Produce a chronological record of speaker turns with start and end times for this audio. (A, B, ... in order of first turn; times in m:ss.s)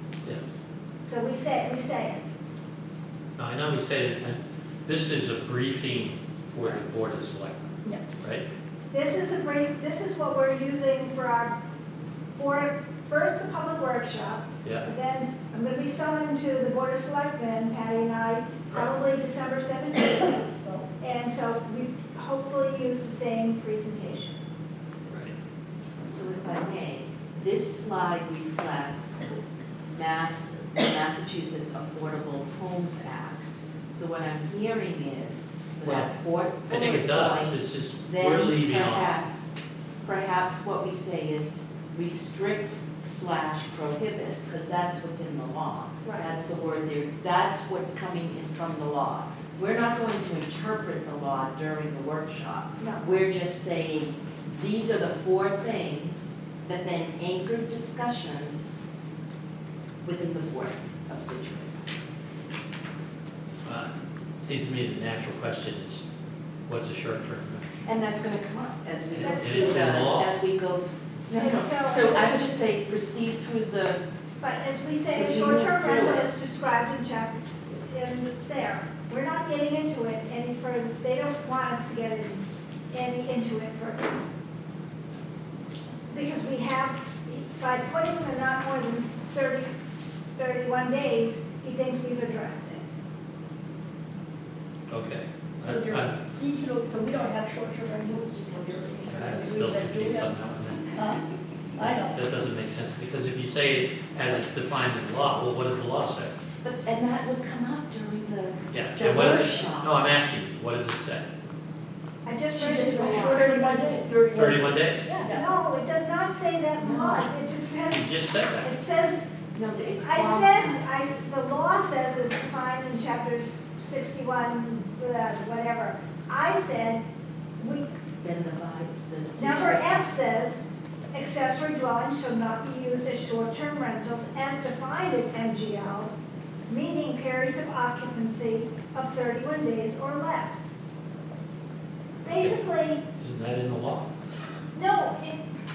0:01.0-0:02.2 A
0:03.4-0:08.4 B
0:08.9-0:11.5 A
0:12.3-0:24.4 A
0:25.1-0:25.3 B
0:26.0-0:29.3 C
0:29.9-0:58.8 C
0:35.8-0:36.1 B
0:36.7-0:39.2 B
0:46.0-0:46.3 A
0:52.8-0:53.0 A
1:00.0-1:01.8 C
1:03.6-1:06.0 B
1:06.7-1:07.7 B
1:07.8-1:14.0 C
1:09.1-1:10.3 B
1:09.2-1:09.8 A
1:11.3-1:12.4 A
1:14.4-1:24.2 A
1:15.1-1:16.3 C
1:26.1-1:29.7 A
1:30.3-1:32.8 A
1:34.9-1:36.1 B
1:35.6-1:40.3 D
1:39.0-1:41.0 B
1:40.9-1:41.2 D
1:41.8-1:42.3 D
1:41.8-1:46.3 B
1:46.6-1:50.0 C
1:48.7-1:51.3 B
1:52.2-1:54.2 A
1:52.6-1:55.4 D
1:52.6-1:53.4 C
1:54.3-1:55.1 B
1:55.2-1:59.3 A
1:56.8-1:57.3 C
1:57.9-1:58.7 B
1:59.5-2:00.8 C
2:00.0-2:07.0 A
2:07.6-2:07.9 A
2:08.2-2:10.0 C
2:09.4-2:16.1 A
2:16.7-2:20.8 A
2:22.2-2:23.0 A
2:22.3-2:22.6 B
2:23.2-2:24.1 B
2:24.7-2:25.4 A